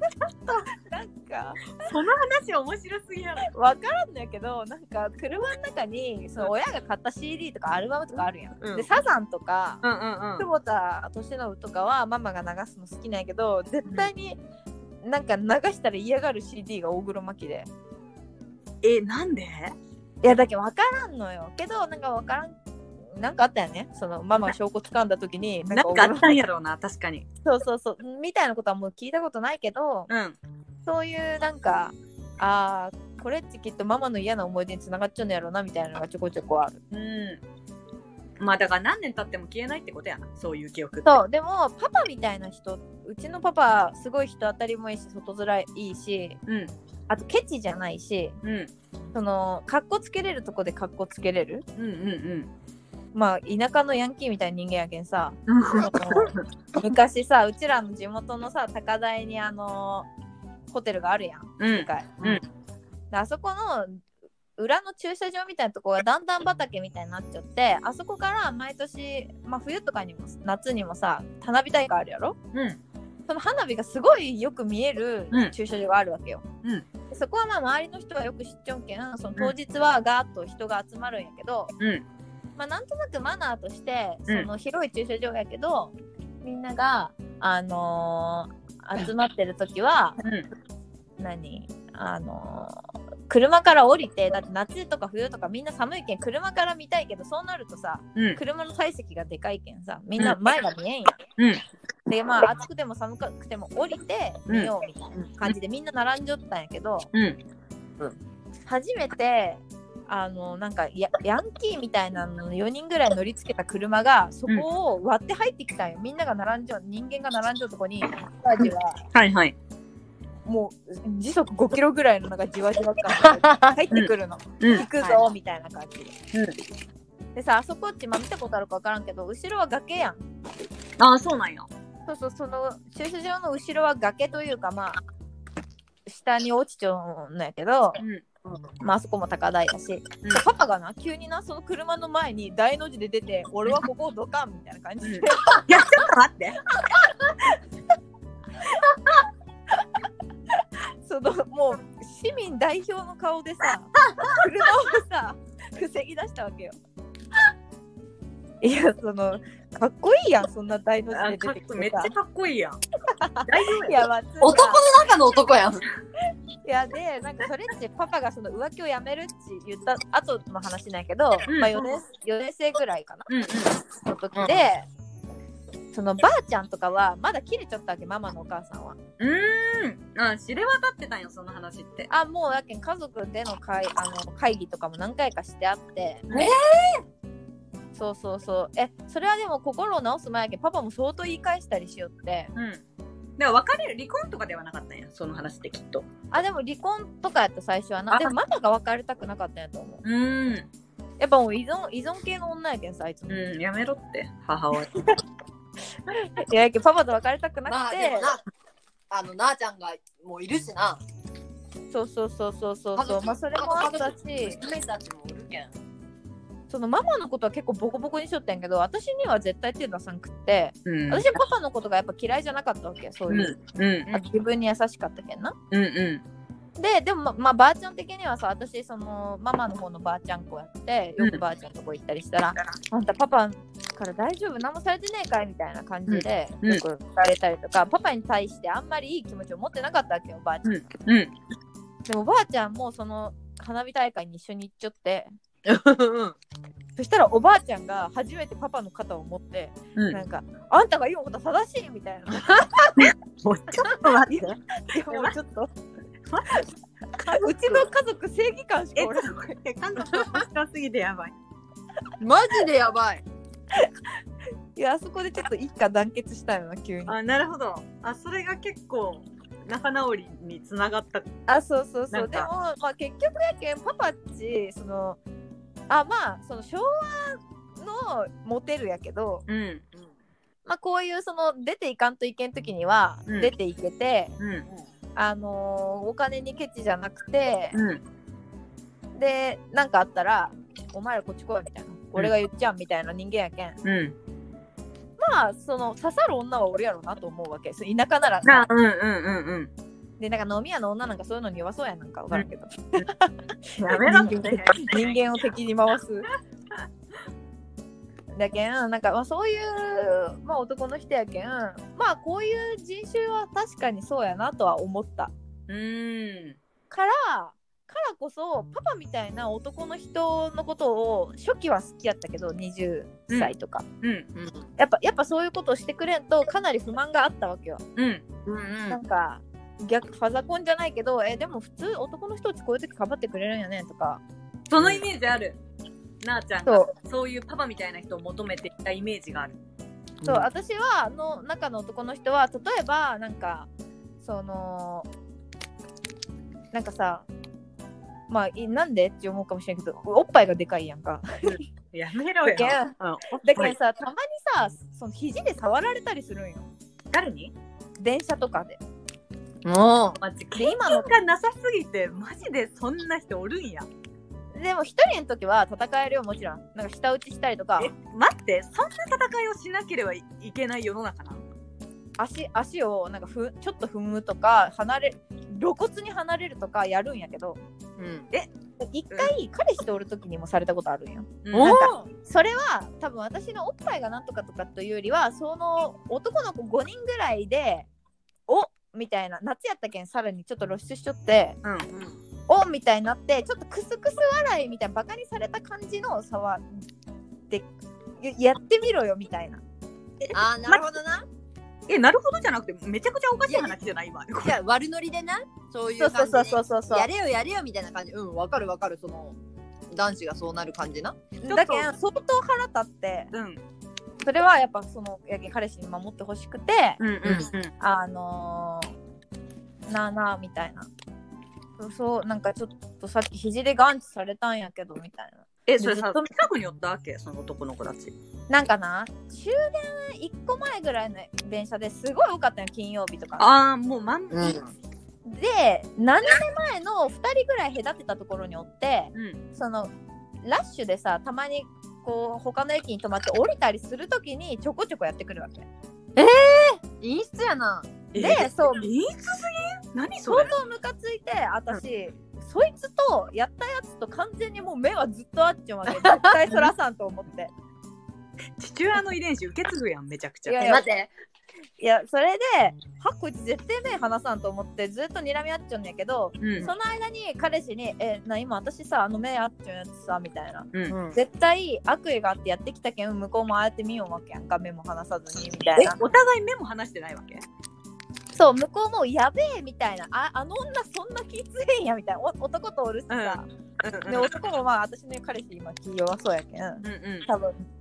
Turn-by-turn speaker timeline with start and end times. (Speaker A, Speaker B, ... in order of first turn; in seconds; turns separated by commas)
Speaker A: 0.7-1.9, Speaker B: 1.8-3.5, Speaker A: 3.5-9.8, Speaker B: 8.6-8.9, Speaker B: 9.8-10.5, Speaker A: 10.4-14.4, Speaker A: 15.0-17.7, Speaker B: 18.8-19.8, Speaker A: 20.2-22.6, Speaker A: 23.1-26.3, Speaker B: 25.7-27.3, Speaker A: 27.4-30.1, Speaker B: 30.1-30.4, Speaker A: 30.9-36.8, Speaker B: 36.9-37.4, Speaker B: 38.4-41.2, Speaker A: 41.0-46.4, Speaker B: 46.5-46.7, Speaker A: 47.1-48.4, Speaker B: 48.4-48.7, Speaker A: 49.1-51.6, Speaker B: 51.8-52.5, Speaker A: 53.1-60.1, Speaker B: 55.5-56.4, Speaker A: 60.7-62.4, Speaker B: 61.6-62.4, Speaker A: 63.1-64.0, Speaker A: 64.6-72.4, Speaker B: 72.5-72.8, Speaker A: 73.3-76.5, Speaker A: 77.1-81.7, Speaker B: 81.8-82.0, Speaker A: 82.6-90.2, Speaker B: 90.2-90.5, Speaker A: 91.2-101.2, Speaker B: 101.4-101.6, Speaker A: 102.1-107.1, Speaker B: 107.1-107.4, Speaker A: 108.7-119.0, Speaker B: 119.1-119.5, Speaker A: 120.5-126.1, Speaker C: 123.2-123.7, Speaker B: 123.9-124.9, Speaker A: 127.3-130.2, Speaker B: 131.0-131.7, Speaker A: 132.1-135.0, Speaker A: 136.1-138.0, Speaker B: 138.0-138.2, Speaker A: 138.8-146.0, Speaker B: 145.0-146.7, Speaker A: 151.1-156.8, Speaker A: 158.6-162.1, Speaker B: 161.1-162.8, Speaker A: 163.2-164.8, Speaker B: 163.4-164.0, Speaker C: 164.4-165.8, Speaker A: 166.7-173.3, Speaker B: 171.5-171.9, Speaker B: 173.3-173.7, Speaker A: 173.9-174.9, Speaker A: 175.9-179.0, Speaker B: 179.2-182.1, Speaker A: 182.1-186.3, Speaker B: 186.3-186.5, Speaker C: 186.3-187.0, Speaker A: 187.9-192.5, Speaker B: 192.6-192.8, Speaker B: 193.4-196.1, Speaker A: 196.3-200.0, Speaker B: 198.1-198.3, Speaker B: 200.0-200.7, Speaker A: 201.2-203.4, Speaker B: 203.3-204.9, Speaker A: 206.2-208.3, Speaker C: 207.7-208.4, Speaker C: 209.1-211.0, Speaker A: 211.9-214.6, Speaker C: 213.0-215.8, Speaker A: 216.7-223.6, Speaker B: 220.9-221.2, Speaker B: 223.3-224.2, Speaker A: 224.1-225.6, Speaker B: 225.7-226.2, Speaker A: 226.8-240.8, Speaker B: 236.1-236.8, Speaker B: 240.6-241.3, Speaker A: 242.1-245.3, Speaker C: 245.7-246.4, Speaker A: 247.0-252.9, Speaker B: 249.9-250.2, Speaker B: 253.0-254.6, Speaker A: 254.3-255.7, Speaker B: 255.1-255.3, Speaker B: 256.3-256.6, Speaker B: 257.2-257.9, Speaker A: 257.3-260.3, Speaker B: 259.0-261.3, Speaker C: 262.2-263.2, Speaker A: 264.8-267.2, Speaker B: 267.1-271.3, Speaker A: 271.5-275.2, Speaker B: 272.1-272.5, Speaker A: 275.9-279.4, Speaker B: 279.5-279.9, Speaker A: 280.6-284.4, Speaker B: 283.3-283.5, Speaker B: 284.4-284.6, Speaker A: 285.2-287.8, Speaker B: 287.7-288.0, Speaker A: 289.1-293.8, Speaker B: 293.8-294.1, Speaker A: 295.2-298.7, Speaker B: 298.4-299.7, Speaker A: 300.2-306.3, Speaker B: 302.3-303.1, Speaker B: 303.8-305.1, Speaker A: 308.3-315.3, Speaker B: 315.7-316.6, Speaker A: 316.9-323.9, Speaker A: 324.8-327.8, Speaker B: 328.0-328.2, Speaker C: 328.5-329.0, Speaker A: 328.9-334.2, Speaker B: 334.7-335.6, Speaker C: 334.8-335.0, Speaker B: 336.2-339.6, Speaker A: 336.7-336.9, Speaker C: 340.2-340.5, Speaker A: 340.2-343.7, Speaker A: 344.2-345.1, Speaker A: 346.7-347.3, Speaker A: 348.3-351.6, Speaker B: 351.4-353.8, Speaker A: 352.4-356.7, Speaker B: 357.1-357.5, Speaker A: 358.0-358.8, Speaker C: 359.6-360.2, Speaker B: 360.2-363.9, Speaker A: 360.6-361.1, Speaker A: 364.5-367.9, Speaker B: 367.8-371.4, Speaker A: 372.2-377.6, Speaker C: 378.0-378.3, Speaker A: 378.8-387.9, Speaker B: 381.4-381.9, Speaker C: 381.5-381.9, Speaker A: 388.5-391.6, Speaker B: 391.6-391.9, Speaker A: 392.5-396.9, Speaker A: 398.2-399.6, Speaker B: 400.2-400.8, Speaker C: 400.3-401.2, Speaker B: 401.9-404.6, Speaker C: 403.5-403.8, Speaker C: 404.4-409.4, Speaker A: 406.0-407.1, Speaker C: 409.9-411.3, Speaker A: 411.4-413.3, Speaker B: 411.4-411.9, Speaker B: 413.3-413.6, Speaker A: 414.2-417.0, Speaker B: 417.0-417.7, Speaker C: 417.2-417.5, Speaker A: 417.8-418.9, Speaker A: 419.9-420.9, Speaker A: 421.8-426.3, Speaker B: 425.7-428.1, Speaker A: 428.5-433.5, Speaker B: 433.4-434.6, Speaker C: 434.3-434.7, Speaker A: 435.2-439.9, Speaker A: 440.4-445.7, Speaker C: 446.2-448.1, Speaker B: 448.1-450.5, Speaker A: 448.2-448.9, Speaker A: 450.2-457.5, Speaker C: 455.9-456.3, Speaker B: 458.6-460.7, Speaker A: 460.5-460.9, Speaker C: 460.6-461.1, Speaker A: 461.8-476.0, Speaker B: 466.4-466.7, Speaker C: 470.9-471.2, Speaker B: 475.7-477.4, Speaker A: 478.4-483.5, Speaker B: 483.1-484.3, Speaker A: 484.1-487.6, Speaker B: 486.8-487.3